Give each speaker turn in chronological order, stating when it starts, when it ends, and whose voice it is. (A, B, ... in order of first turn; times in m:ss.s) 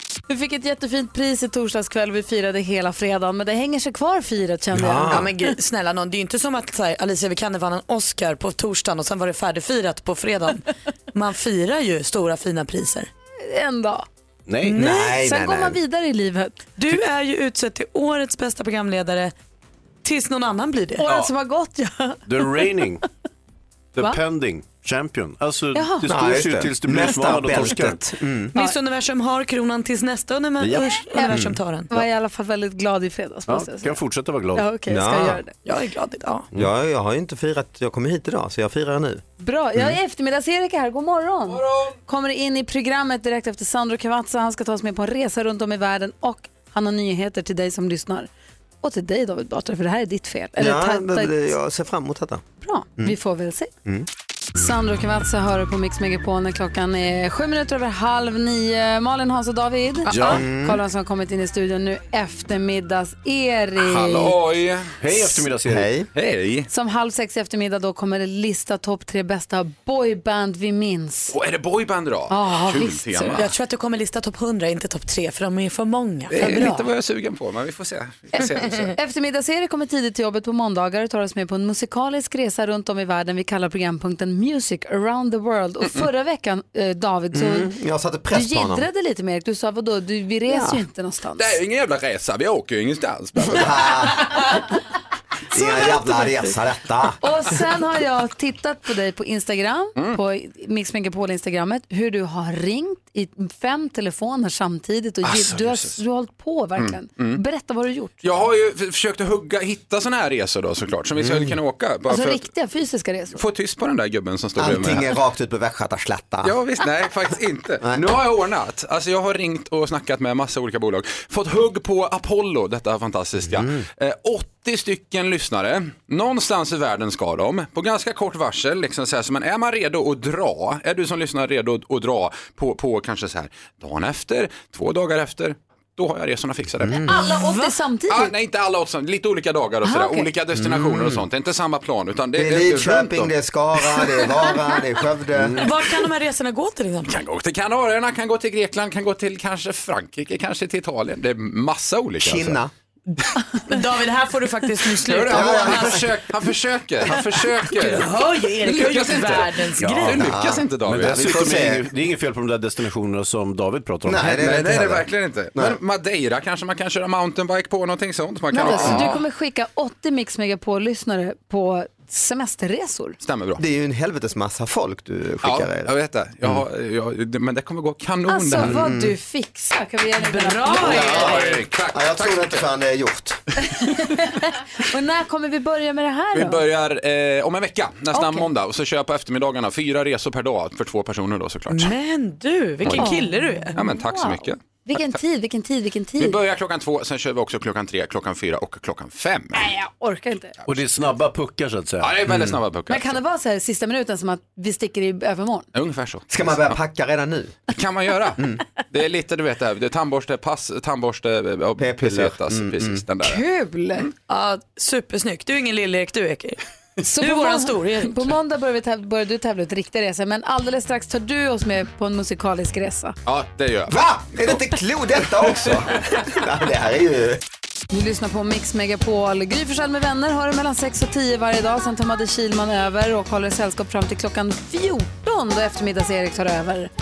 0:00.3-0:05.5 A
0:04.7-0:05.3 B
0:05.1-0:13.1 C
0:13.4-0:14.1 A
0:14.5-0:14.8 D
0:14.7-0:15.1 C
0:14.7-0:16.6 A
0:14.8-0:15.8 B
0:16.8-0:19.3 C
0:20.0-0:21.0 C
0:21.0-0:22.8 A
0:21.0-0:21.3 D
0:22.3-0:23.0 D
0:23.9-0:28.0 D
0:25.7-0:26.2 A
0:26.1-0:28.5 B
0:28.5-0:31.9 C
0:30.6-0:31.0 D
0:31.3-0:32.0 B
0:31.9-0:34.0 A
0:33.5-0:34.7 D
0:34.6-0:35.5 A
0:34.9-0:35.4 B
0:35.6-0:36.5 C
0:36.5-0:39.2 B
0:39.4-0:48.3 A
0:41.5-0:42.0 E
0:48.8-0:51.5 A
0:50.6-0:52.4 B
0:52.6-0:53.7 A
0:54.6-1:04.4 A
1:00.1-1:00.4 D
1:00.2-1:00.8 B
1:03.8-1:04.4 D
1:04.0-1:05.4 E
1:05.0-1:05.9 D
1:05.6-1:06.1 B
1:06.1-1:06.7 E
1:06.7-1:11.4 A
1:11.3-1:13.5 E
1:12.3-1:13.4 A
1:13.3-1:16.9 C
1:16.3-1:19.0 E
1:16.4-1:16.8 A
1:18.4-1:27.7 A
1:27.3-1:28.9 B
1:28.3-1:31.6 A
1:30.5-1:30.8 B
1:31.4-1:33.9 E
1:33.4-1:34.7 B
1:35.5-1:37.6 B
1:35.6-1:36.0 A
1:36.1-1:36.5 C
1:37.2-1:48.2 A
1:45.2-1:46.0 E
1:46.8-1:47.4 E
1:48.2-1:52.5 E
1:51.2-1:51.6 B
1:52.1-1:53.4 A
1:53.4-1:55.2 E
1:54.6-1:56.6 B
1:56.4-2:17.1 E
1:57.8-1:58.1 B
2:03.4-2:03.8 B
2:16.8-2:17.1 B
2:17.1-2:18.3 A
2:17.1-2:17.7 C
2:18.1-2:24.1 E
2:19.8-2:20.3 A
2:20.6-2:21.3 B
2:22.4-2:25.8 B
2:25.6-2:27.2 C
2:27.1-2:32.6 E
2:32.2-2:32.7 B
2:33.5-2:35.9 C
2:35.0-2:41.6 E
2:35.3-2:36.3 B
2:37.7-2:40.3 C
2:39.8-2:40.3 D
2:40.1-2:41.9 B
2:40.8-2:45.0 D
2:44.0-2:45.8 B
2:44.4-2:49.2 E
2:48.5-2:53.2 A
2:48.7-2:49.0 B
2:53.2-2:53.6 E
2:53.6-2:55.9 B
2:55.4-2:58.8 E
2:58.3-3:01.4 A
2:58.6-2:59.2 B
3:00.2-3:01.6 C
3:00.7-3:02.7 E
3:00.8-3:03.4 B
3:03.7-3:06.6 A
3:06.3-3:11.9 E
3:08.1-3:08.5 A
3:11.7-3:13.8 C
3:12.8-3:13.2 E
3:13.0-3:16.4 A
3:13.8-3:15.2 E
3:16.2-3:19.7 E
3:19.6-3:20.6 A
3:20.7-3:22.3 D
3:22.0-3:23.2 E
3:22.9-3:25.7 A
3:25.7-3:26.8 E
3:26.3-3:27.6 B
3:27.7-3:33.4 E
3:31.8-3:33.0 B
3:33.2-3:34.1 A
3:34.3-3:36.6 C
3:37.0-3:43.2 A
3:37.2-3:38.3 C
3:43.3-3:44.6 E
3:43.9-3:47.4 B
3:45.3-3:46.0 E
3:47.9-3:56.9 A